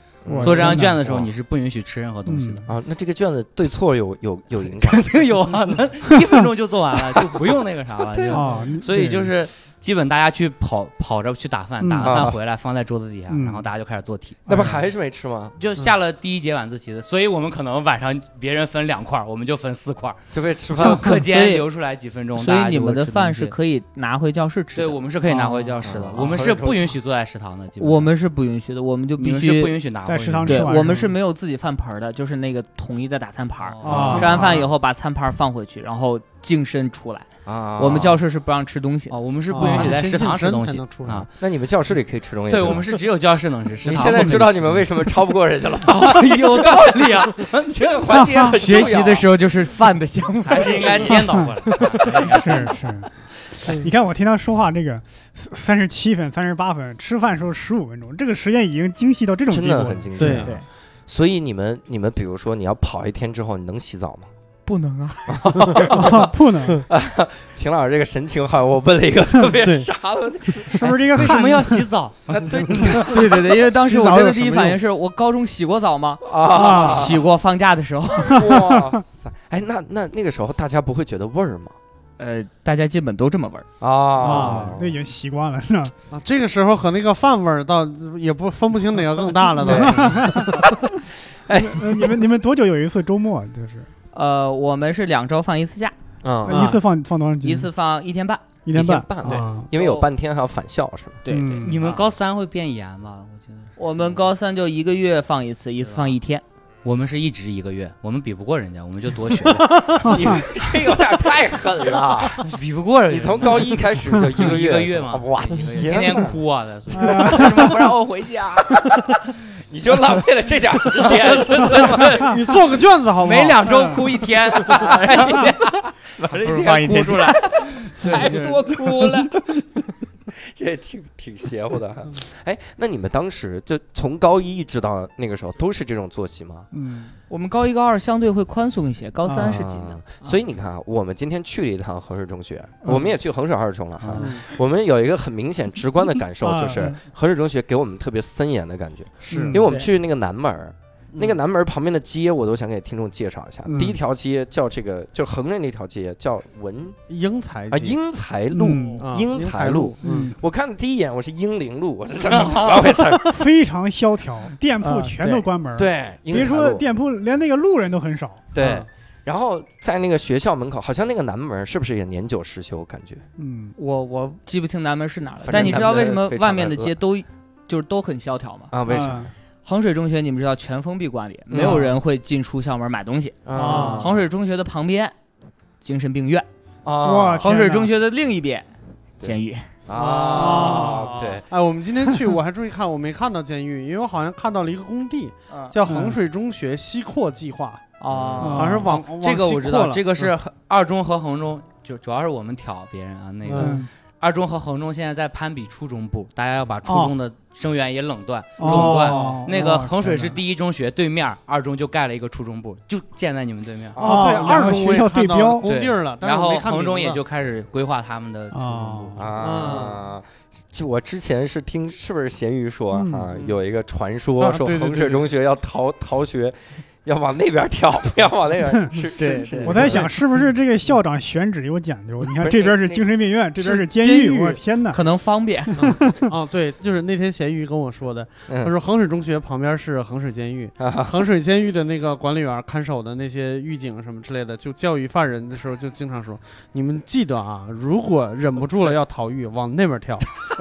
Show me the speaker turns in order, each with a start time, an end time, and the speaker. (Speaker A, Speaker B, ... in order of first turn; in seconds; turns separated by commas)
Speaker A: 0.2-1.3, Speaker B: 0.3-1.0, Speaker C: 0.4-2.6, Speaker B: 2.2-2.6, Speaker A: 2.7-5.2, Speaker C: 4.6-14.4, Speaker A: 8.0-8.5, Speaker B: 8.3-9.3, Speaker B: 11.8-12.3, Speaker A: 12.0-12.3, Speaker B: 13.3-13.7, Speaker B: 14.5-14.8, Speaker A: 14.5-15.6, Speaker C: 15.6-20.2, Speaker A: 20.3-21.2, Speaker C: 20.7-23.5, Speaker D: 21.1-21.6, Speaker D: 22.4-25.9, Speaker C: 24.8-28.1, Speaker A: 25.8-26.9, Speaker D: 27.8-29.8, Speaker C: 29.2-30.8, Speaker B: 30.0-31.1, Speaker D: 30.5-39.1, Speaker C: 33.6-34.3, Speaker E: 33.8-34.6, Speaker B: 33.8-34.4, Speaker A: 37.5-38.2, Speaker C: 39.1-41.3, Speaker E: 39.5-41.3, Speaker B: 39.5-39.9, Speaker A: 41.4-42.9, Speaker C: 42.5-44.9, Speaker A: 43.8-49.3, Speaker C: 45.8-48.2, Speaker B: 48.1-48.5, Speaker D: 48.5-51.2, Speaker C: 50.5-52.8, Speaker A: 50.7-51.1, Speaker B: 52.1-53.1, Speaker B: 53.7-60.5, Speaker A: 59.5-64.3, Speaker E: 60.2-60.5, Speaker D: 60.3-60.6, Speaker D: 64.7-65.5, Speaker A: 65.3-66.3, Speaker B: 65.9-66.8, Speaker A: 66.8-71.0, Speaker E: 69.6-69.9, Speaker B: 70.7-71.9, Speaker C: 71.1-73.0, Speaker A: 72.3-73.2, Speaker E: 72.7-74.8, Speaker D: 73.0-78.7, Speaker A: 76.2-77.2, Speaker B: 76.5-77.1, Speaker A: 78.2-81.8, Speaker D: 82.2-83.7, Speaker A: 83.8-85.0, Speaker B: 84.2-85.9, Speaker E: 84.2-84.7, Speaker E: 86.1-90.7, Speaker A: 89.6-90.7, Speaker B: 89.6-90.8, Speaker A: 91.5-92.2, Speaker B: 91.5-93.9, Speaker D: 94.1-95.9, Speaker A: 96.2-96.7, Speaker B: 96.4-97.7, Speaker E: 96.5-96.8, Speaker D: 97.4-98.4, Speaker B: 98.6-99.7, Speaker A: 98.7-101.2, Speaker E: 99.2-99.7, Speaker D: 99.7-100.1, Speaker D: 101.2-102.0, Speaker B: 101.3-101.8, Speaker C: 101.6-103.8, Speaker D: 103.8-106.4, Speaker C: 105.8-106.1, Speaker C: 106.8-110.4, Speaker E: 109.6-110.0, Speaker A: 110.0-112.5, Speaker B: 110.0-110.4, Speaker C: 112.4-119.0, Speaker A: 113.1-116.3, Speaker B: 116.9-117.7, Speaker A: 117.2-117.7, Speaker A: 119.7-122.3, Speaker C: 121.2-122.4, Speaker E: 122.1-123.7, Speaker C: 123.2-129.5, Speaker B: 123.7-124.0, Speaker A: 124.7-126.7, Speaker D: 126.4-127.4, Speaker A: 128.0-129.5, Speaker A: 130.4-136.7, Speaker B: 136.7-137.1, Speaker D: 137.3-140.4, Speaker B: 139.2-139.6, Speaker A: 139.4-157.0, Speaker C: 144.0-144.3, Speaker E: 144.2-144.5, Speaker B: 146.4-147.0, Speaker E: 149.3-149.6, Speaker B: 149.3-149.7, Speaker E: 151.1-151.4, Speaker B: 153.7-154.0, Speaker E: 157.1-158.0, Speaker A: 157.7-163.4, Speaker B: 158.5-159.1, Speaker E: 158.9-160.3, Speaker B: 160.0-160.3, Speaker C: 162.2-163.0, Speaker B: 163.2-168.4, Speaker D: 164.8-165.4, Speaker A: 165.8-166.8, Speaker A: 168.5-173.2, Speaker E: 168.6-168.9, Speaker B: 173.4-173.7, Speaker D: 173.8-178.7, Speaker A: 175.4-177.0, Speaker A: 178.7-179.3, Speaker B: 178.9-179.3, Speaker D: 179.6-185.1, Speaker A: 181.5-181.9, Speaker B: 181.6-181.9, Speaker A: 183.4-184.2, Speaker B: 183.5-184.1, Speaker E: 183.6-184.1, Speaker D: 185.8-186.5, Speaker A: 186.8-187.5, Speaker B: 187.0-187.9, Speaker D: 187.4-188.7, Speaker D: 189.2-189.7, Speaker A: 189.9-191.4, Speaker E: 189.9-197.8, Speaker B: 190.3-191.1, Speaker B: 195.8-196.2, Speaker D: 198.0-198.5, Speaker C: 198.0-214.0, Speaker A: 198.1-198.7, Speaker B: 198.4-199.0, Speaker E: 198.4-200.3, Speaker E: 203.4-203.8, Speaker B: 203.5-203.9, Speaker B: 206.8-207.1, Speaker B: 208.6-210.4, Speaker E: 208.7-209.4, Speaker A: 213.9-214.7, Speaker E: 213.9-217.2, Speaker B: 214.0-215.7, Speaker C: 215.6-219.2, Speaker B: 218.5-219.3, Speaker A: 219.2-230.1, Speaker E: 219.4-220.0, Speaker B: 222.9-223.3, Speaker E: 224.4-225.3, Speaker B: 228.7-229.0, Speaker D: 229.2-230.1, Speaker B: 229.6-235.0, Speaker E: 229.7-230.0, Speaker A: 232.4-233.0, Speaker D: 234.0-235.8, Speaker B: 235.7-236.2, Speaker E: 235.8-250.2, Speaker A: 238.5-238.7, Speaker A: 240.8-241.2